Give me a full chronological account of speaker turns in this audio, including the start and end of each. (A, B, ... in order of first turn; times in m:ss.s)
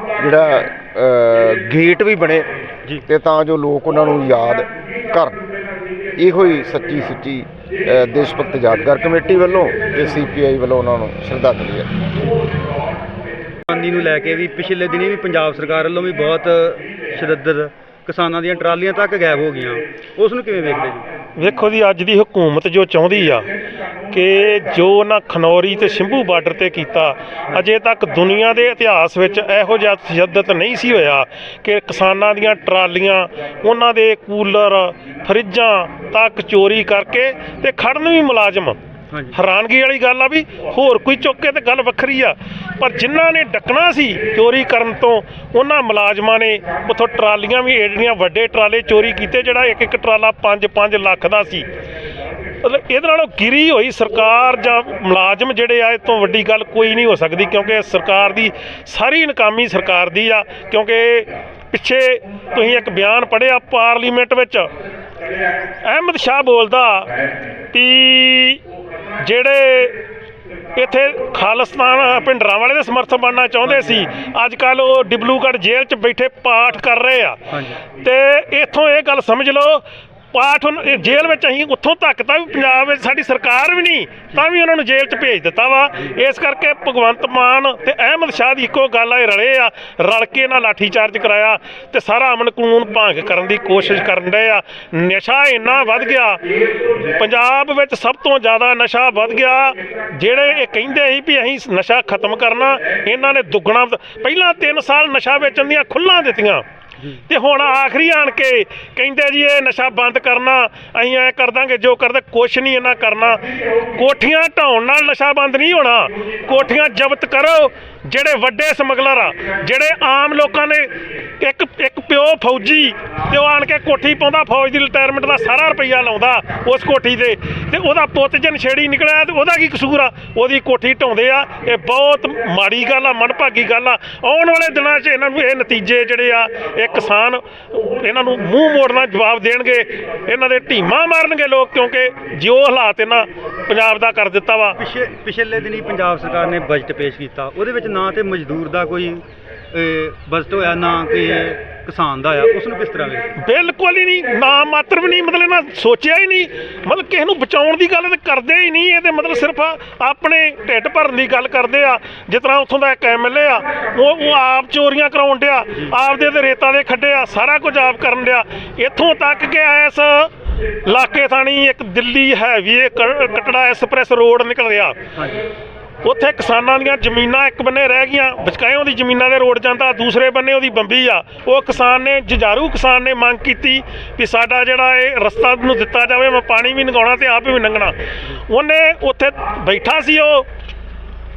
0:00.2-0:02.5 A
0:03.1-0:05.4 A
0:06.2-0:11.9 A
0:13.7-0:21.1 B
0:21.4-0:23.5 C
0:24.1-0:38.8 C
0:39.1-0:39.4 B
0:39.3-0:51.7 C
0:52.6-1:04.7 C
1:05.8-1:07.1 C
1:07.7-1:08.6 C
1:09.2-1:10.0 C
1:10.7-1:36.4 C
1:13.6-1:14.0 B
1:17.5-1:17.8 B
1:37.0-1:46.6 C
1:47.3-2:24.8 C
2:24.8-2:33.3 B
2:33.4-2:50.3 C
2:50.8-2:55.0 C
2:55.2-2:55.4 B
2:56.0-3:08.0 C
3:08.5-3:10.4 C